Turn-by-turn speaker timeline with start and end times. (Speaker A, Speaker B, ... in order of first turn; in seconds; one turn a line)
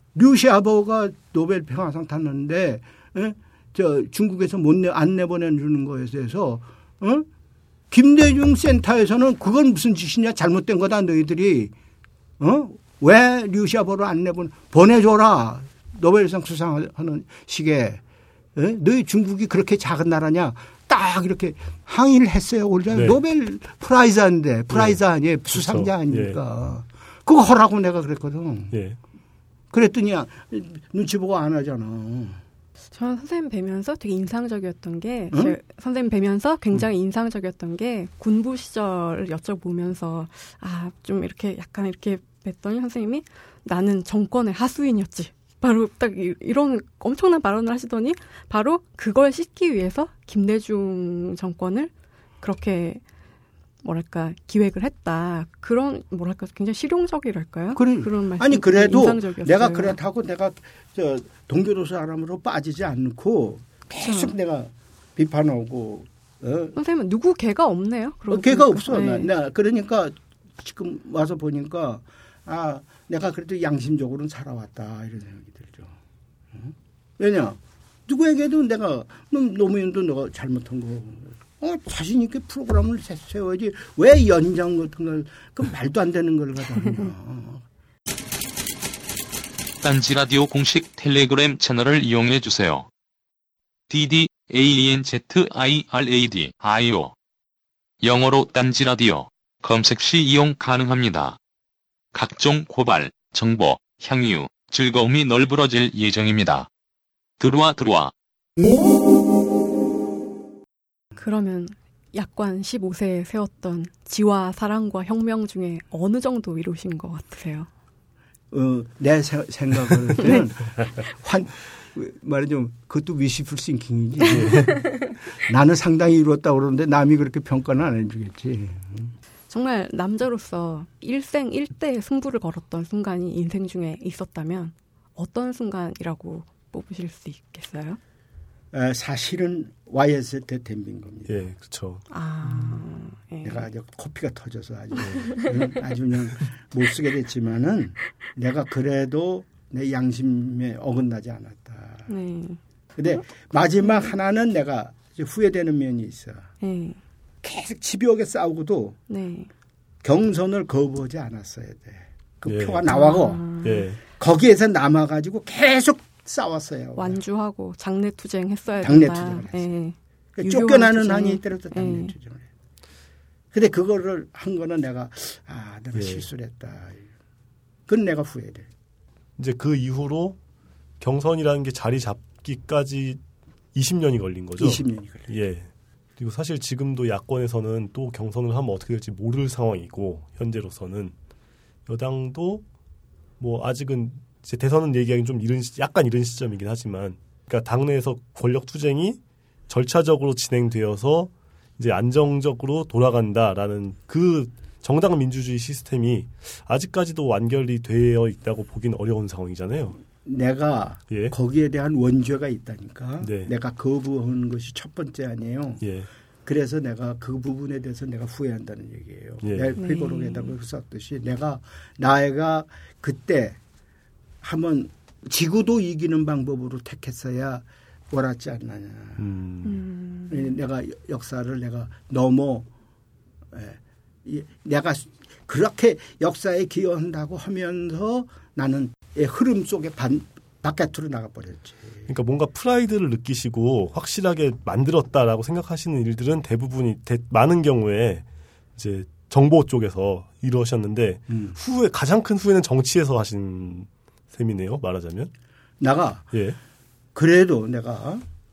Speaker A: 0.1-7.3
Speaker A: 7.9-11.7
Speaker A: 12.4-18.0
Speaker A: 18.6-28.8
Speaker B: 22.9-23.2
Speaker B: 24.7-26.4
Speaker B: 28.7-29.0
Speaker A: 29.7-32.4
Speaker C: 32.9-53.0
Speaker C: 53.8-60.0
Speaker A: 57.8-66.8
Speaker C: 64.0-64.3
Speaker C: 66.8-69.3
Speaker A: 68.3-76.0
Speaker A: 76.5-87.6
Speaker D: 89.8-92.9
Speaker D: 93.9-97.2
Speaker D: 98.0-101.4
Speaker D: 102.1-106.7
Speaker D: 107.4-108.1
Speaker C: 111.2-117.7
Speaker A: 118.5-129.2
Speaker B: 124.3-124.8
Speaker C: 129.5-138.0
Speaker A: 138.7-141.3
Speaker B: 141.3-142.1
Speaker C: 142.1-143.7
Speaker A: 143.4-152.1
Speaker C: 152.1-152.6
Speaker A: 153.0-156.5
Speaker C: 153.8-154.1
Speaker C: 156.6-157.0
Speaker A: 157.4-159.0
Speaker C: 159.1-159.5
Speaker A: 160.0-167.2
Speaker B: 162.5-162.9
Speaker C: 162.9-163.9
Speaker B: 163.6-164.0
Speaker C: 166.9-172.1
Speaker A: 168.8-169.7
Speaker A: 170.4-172.5
Speaker A: 173.5-177.1
Speaker B: 175.9-176.3
Speaker A: 177.9-178.7
Speaker B: 179.4-180.4
Speaker B: 181.0-183.2
Speaker B: 183.7-191.1
Speaker A: 184.6-185.3
Speaker B: 191.9-192.6
Speaker B: 193.4-210.0
Speaker A: 210.2-215.8
Speaker B: 213.2-213.5
Speaker B: 215.8-216.1
Speaker A: 216.4-223.6
Speaker B: 219.4-219.8
Speaker C: 219.8-220.5
Speaker A: 224.4-229.3
Speaker B: 229.2-229.8
Speaker C: 229.7-230.5
Speaker A: 230.3-232.7
Speaker A: 233.5-242.1
Speaker B: 242.1-248.2
Speaker B: 248.8-255.3
Speaker A: 251.3-251.6
Speaker A: 255.8-256.3
Speaker A: 257.1-258.2